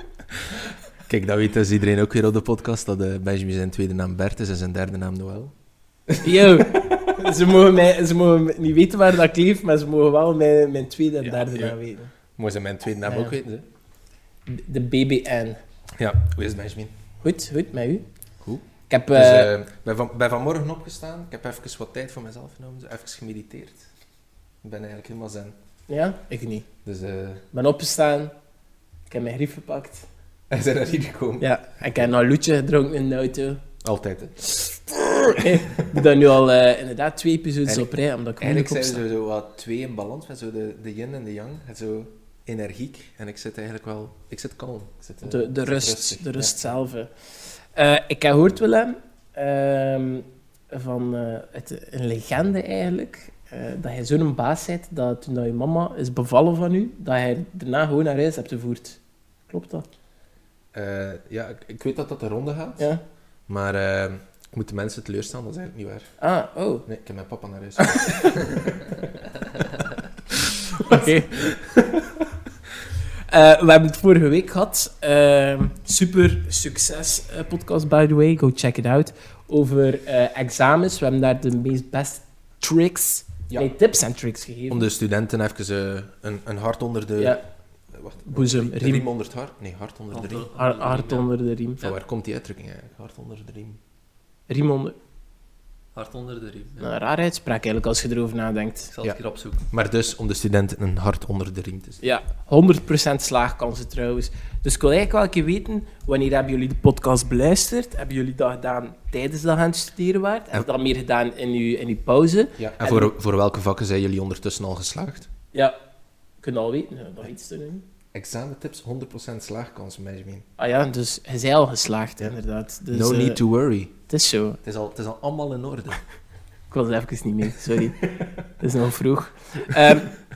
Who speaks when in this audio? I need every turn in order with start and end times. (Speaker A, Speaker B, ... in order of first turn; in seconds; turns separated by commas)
Speaker A: 1.1-5.5, Speaker A: 6.1-7.0, Speaker B: 6.2-12.1, Speaker A: 11.2-11.8, Speaker A: 12.3-13.6, Speaker B: 13.0-13.4, Speaker B: 14.5-15.6, Speaker A: 16.0-16.9, Speaker B: 17.2-18.1, Speaker A: 18.4-23.9, Speaker B: 18.9-19.5, Speaker A: 24.6-25.5, Speaker B: 25.9-26.7, Speaker A: 26.8-27.4, Speaker B: 27.5-28.3, Speaker B: 29.1-30.1, Speaker A: 30.5-31.5, Speaker B: 31.4-33.6, Speaker A: 33.8-36.0, Speaker B: 35.3-39.0, Speaker A: 38.4-46.7, Speaker B: 45.2-59.9, Speaker A: 60.7-62.9, Speaker A: 63.5-66.1, Speaker B: 66.2-66.8, Speaker A: 66.8-69.1, Speaker B: 67.8-68.4, Speaker B: 70.7-71.4, Speaker A: 70.8-72.1, Speaker B: 73.3-84.9, Speaker A: 84.7-87.4, Speaker A: 87.9-90.5, Speaker B: 88.3-89.0, Speaker C: 90.1-91.3, Speaker B: 90.5-91.8, Speaker A: 91.8-93.8, Speaker B: 94.5-94.9, Speaker C: 95.9-96.9, Speaker B: 96.8-98.9, Speaker C: 98.9-99.7, Speaker A: 99.7-102.0, Speaker B: 102.0-113.1, Speaker A: 112.6-115.3, Speaker B: 116.4-117.8, Speaker A: 118.1-120.5, Speaker B: 120.6-123.4, Speaker A: 122.9-123.9, Speaker B: 124.1-124.6, Speaker A: 124.6-126.0, Speaker B: 126.7-130.1